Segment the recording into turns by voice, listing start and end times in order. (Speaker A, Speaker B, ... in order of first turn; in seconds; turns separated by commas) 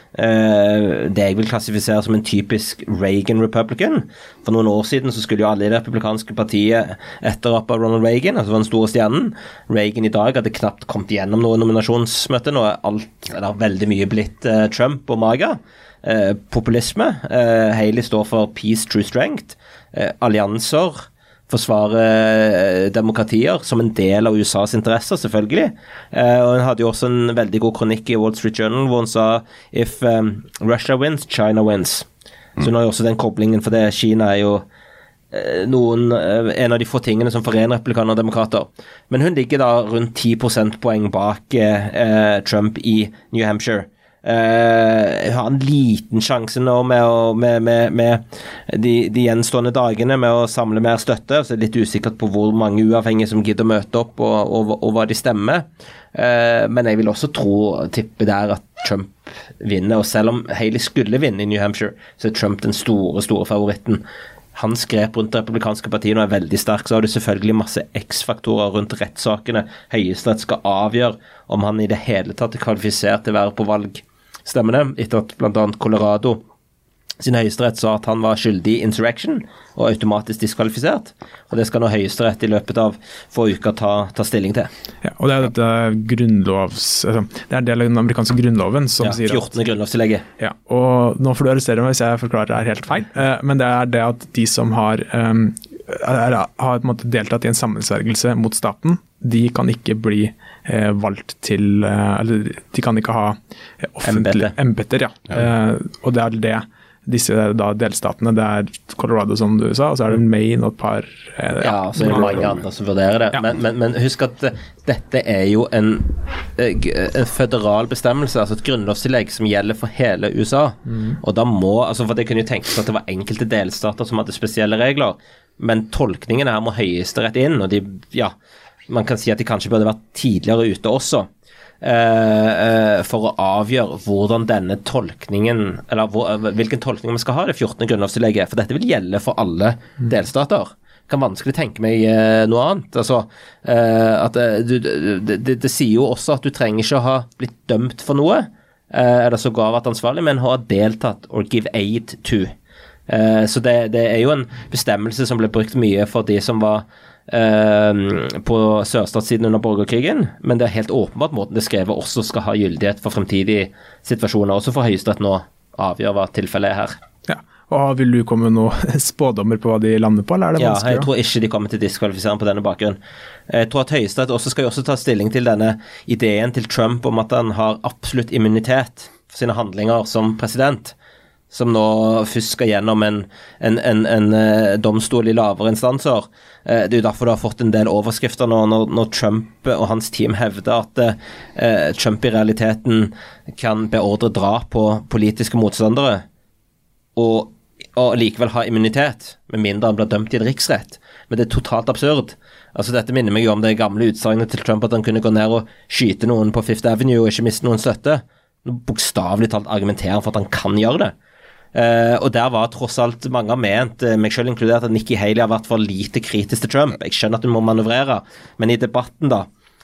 Speaker A: 0.1-34.6, Speaker A: 35.3-64.0, Speaker A: 64.5-76.4, Speaker A: 77.2-84.7, Speaker B: 85.0-89.5, Speaker A: 89.0-90.2, Speaker B: 90.4-112.5, Speaker A: 104.1-104.5, Speaker A: 111.6-128.3, Speaker B: 120.9-121.2, Speaker A: 128.9-131.3, Speaker A: 131.8-152.5, Speaker A: 153.1-167.0, Speaker B: 167.3-171.1, Speaker A: 170.6-180.9, Speaker A: 181.5-196.2, Speaker A: 197.2-211.1, Speaker A: 211.7-219.4